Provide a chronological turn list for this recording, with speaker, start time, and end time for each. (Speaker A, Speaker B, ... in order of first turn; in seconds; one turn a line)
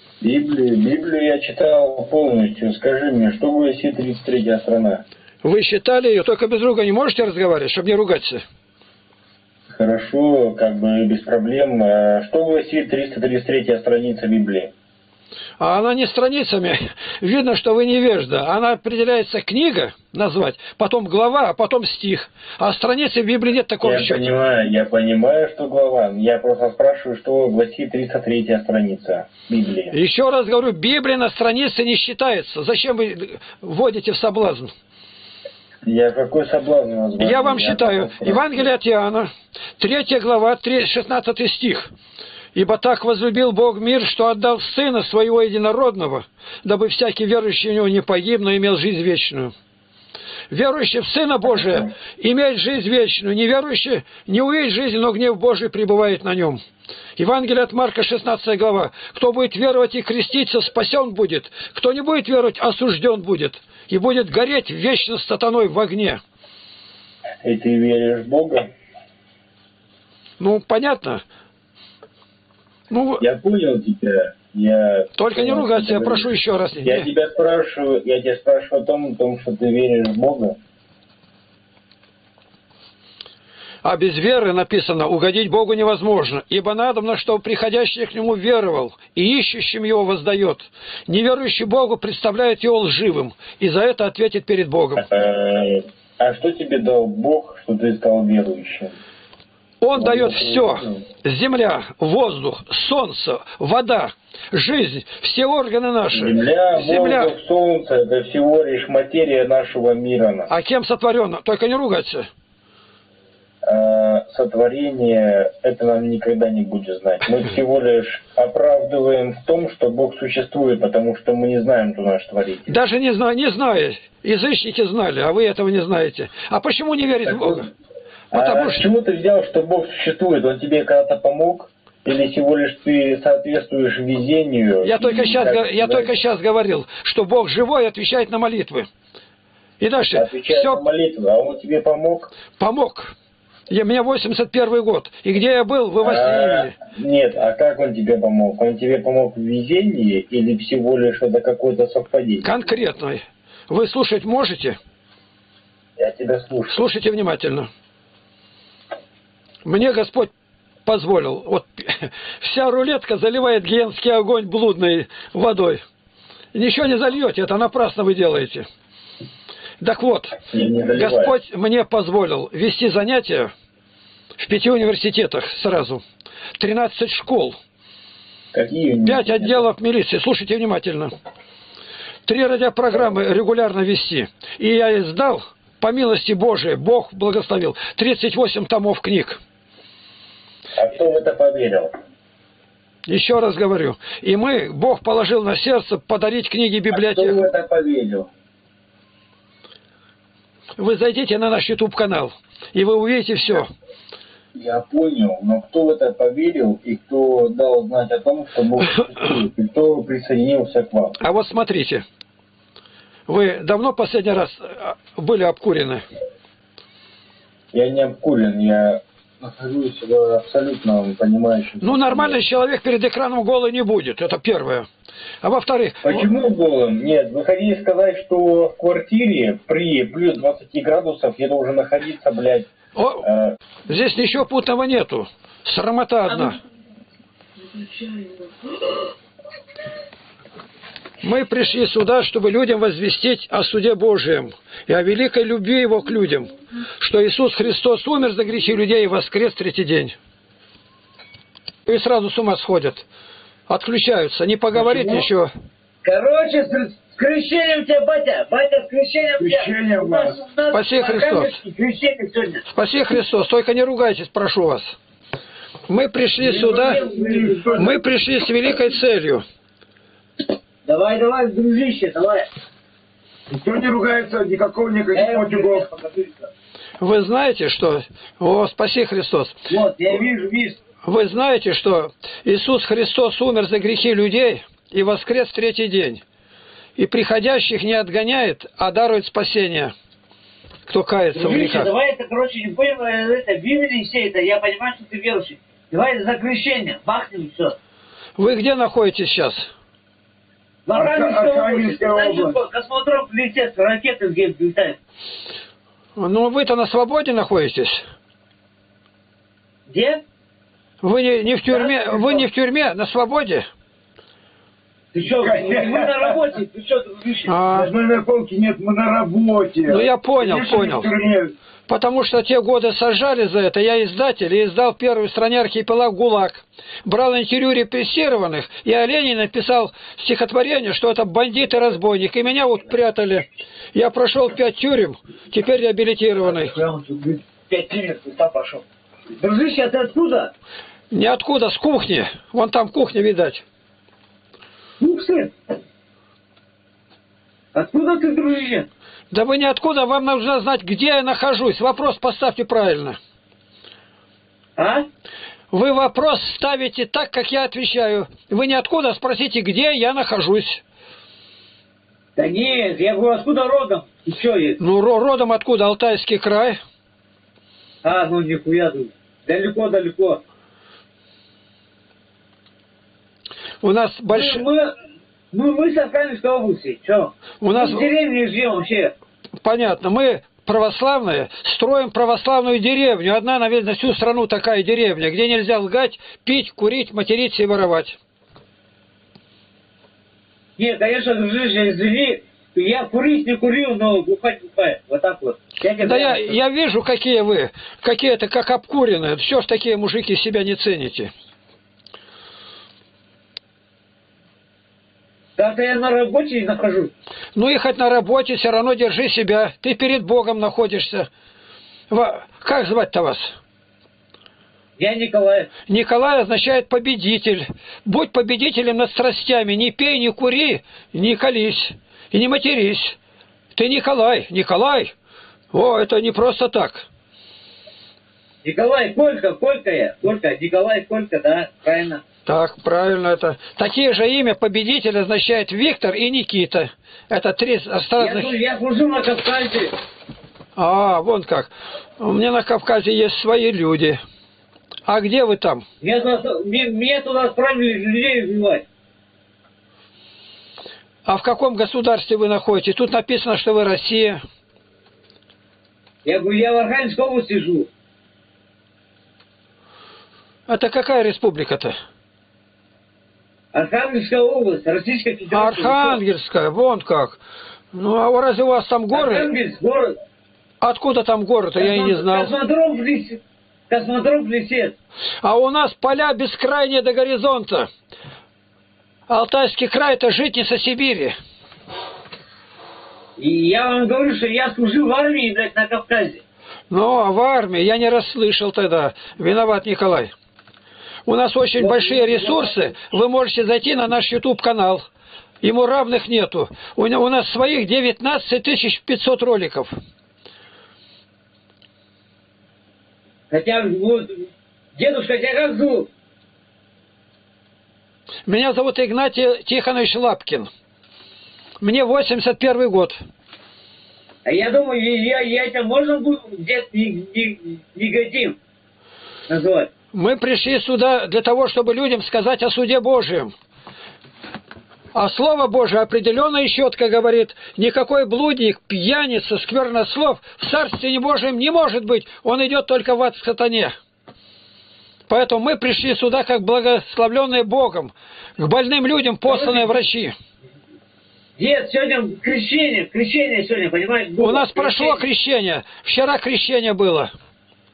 Speaker A: 0.2-5.0
Speaker B: 5.4-8.4
Speaker A: 9.7-14.7
Speaker B: 15.6-24.3
Speaker A: 23.8-29.9
Speaker B: 29.9-34.7
Speaker A: 35.9-38.6
Speaker B: 37.2-41.9
Speaker B: 42.5-49.5
Speaker B: 50.5-56.6
Speaker B: 57.2-66.2
Speaker A: 67.4-68.7
Speaker B: 70.4-71.2
Speaker B: 72.9-73.2
Speaker A: 73.2-76.3
Speaker B: 75.2-77.1
Speaker A: 76.8-80.6
Speaker B: 83.8-95.0
Speaker A: 95.0-99.0
Speaker B: 99.8-107.3
Speaker A: 100.0-101.0
Speaker A: 106.1-110.5
Speaker B: 110.5-112.3
Speaker A: 113.7-122.7
Speaker B: 122.7-127.7
Speaker A: 127.2-127.7
Speaker A: 128.3-136.1
Speaker B: 128.3-128.8
Speaker B: 134.8-138.9
Speaker B: 139.8-140.8
Speaker A: 140.1-142.3
Speaker B: 142.6-143.1
Speaker B: 143.7-146.7
Speaker A: 146.0-152.5
Speaker B: 152.4-154.8
Speaker A: 156.0-156.8
Speaker B: 156.7-157.7
Speaker B: 159.7-160.3
Speaker B: 160.8-165.8
Speaker B: 166.5-168.7
Speaker B: 169.8-170.4
Speaker A: 170.5-171.3
Speaker B: 171.0-173.5
Speaker B: 174.4-176.0
Speaker B: 176.6-177.6
Speaker A: 178.5-179.6
Speaker B: 179.1-181.1
Speaker B: 182.3-189.4
Speaker A: 190.7-191.9
Speaker B: 193.1-197.4
Speaker A: 196.9-198.3
Speaker B: 200.8-203.7
Speaker A: 204.6-211.2
Speaker B: 211.2-212.1
Speaker B: 213.3-216.0
Speaker A: 217.7-222.4
Speaker B: 221.8-224.9
Speaker B: 225.4-226.3
Speaker A: 226.0-232.7
Speaker B: 232.9-233.3
Speaker A: 233.2-233.6
Speaker B: 233.9-236.6
Speaker B: 241.2-250.2
Speaker B: 251.9-253.1
Speaker B: 253.7-255.5
Speaker C: 254.8-255.3
Speaker C: 256.0-262.6
Speaker D: 259.4-260.4
Speaker B: 260.7-261.6
Speaker B: 262.7-265.0
Speaker B: 265.9-267.0
Speaker C: 266.4-268.1
Speaker D: 266.9-268.0
Speaker B: 267.8-269.4
Speaker C: 270.8-272.5
Speaker D: 273.5-275.9
Speaker C: 275.1-276.5
Speaker B: 277.0-279.6
Speaker C: 279.7-280.8
Speaker B: 281.0-286.2
Speaker B: 287.0-289.9
Speaker B: 290.9-291.9
Speaker C: 291.3-297.8
Speaker B: 298.4-299.7
Speaker C: 300.9-305.0
Speaker D: 300.9-302.6
Speaker B: 306.2-308.0
Speaker C: 309.9-310.2
Speaker B: 311.0-313.7
Speaker C: 311.7-312.5
Speaker C: 315.1-317.6
Speaker D: 315.4-316.2
Speaker B: 317.5-317.9
Speaker D: 317.7-321.5
Speaker B: 319.9-321.1
Speaker B: 321.9-336.8
Speaker C: 336.4-338.8
Speaker C: 339.4-340.5
Speaker B: 341.1-343.6
Speaker C: 345.0-345.5
Speaker C: 347.7-348.9
Speaker B: 349.3-353.2
Speaker C: 354.8-355.1
Speaker B: 355.7-360.8
Speaker C: 362.4-364.8
Speaker B: 364.8-366.8
Speaker C: 368.0-370.4
Speaker B: 373.8-374.6
Speaker C: 374.3-374.9
Speaker C: 375.5-379.1
Speaker B: 377.6-378.1
Speaker B: 379.6-388.2
Speaker C: 390.8-396.6
Speaker B: 396.0-401.3
Speaker C: 405.6-407.1
Speaker B: 407.6-411.3
Speaker B: 412.1-413.6
Speaker C: 415.0-415.7
Speaker B: 415.9-423.2
Speaker B: 423.8-425.1
Speaker B: 425.7-427.1
Speaker C: 428.6-432.2
Speaker B: 432.5-438.5
Speaker C: 438.2-439.9
Speaker B: 440.8-444.2
Speaker B: 445.1-445.8
Speaker C: 446.0-448.9
Speaker B: 451.3-454.4
Speaker C: 456.2-457.9
Speaker B: 460.7-461.9
Speaker C: 463.7-466.2
Speaker B: 465.5-467.4
Speaker B: 467.9-469.5
Speaker C: 469.1-470.1
Speaker B: 470.8-472.5
Speaker C: 471.8-475.0
Speaker B: 475.4-477.9
Speaker B: 479.3-481.4
Speaker C: 483.4-486.4
Speaker B: 486.9-490.3
Speaker B: 491.3-495.1
Speaker C: 491.8-493.0
Speaker B: 495.6-499.9
Speaker C: 503.5-506.1
Speaker B: 508.5-510.7
Speaker B: 511.8-513.2
Speaker C: 514.5-518.6
Speaker C: 519.5-519.9
Speaker B: 520.1-523.5
Speaker B: 525.1-533.9
Speaker B: 535.3-540.3
Speaker C: 539.5-540.0
Speaker C: 541.6-545.2
Speaker B: 544.4-547.3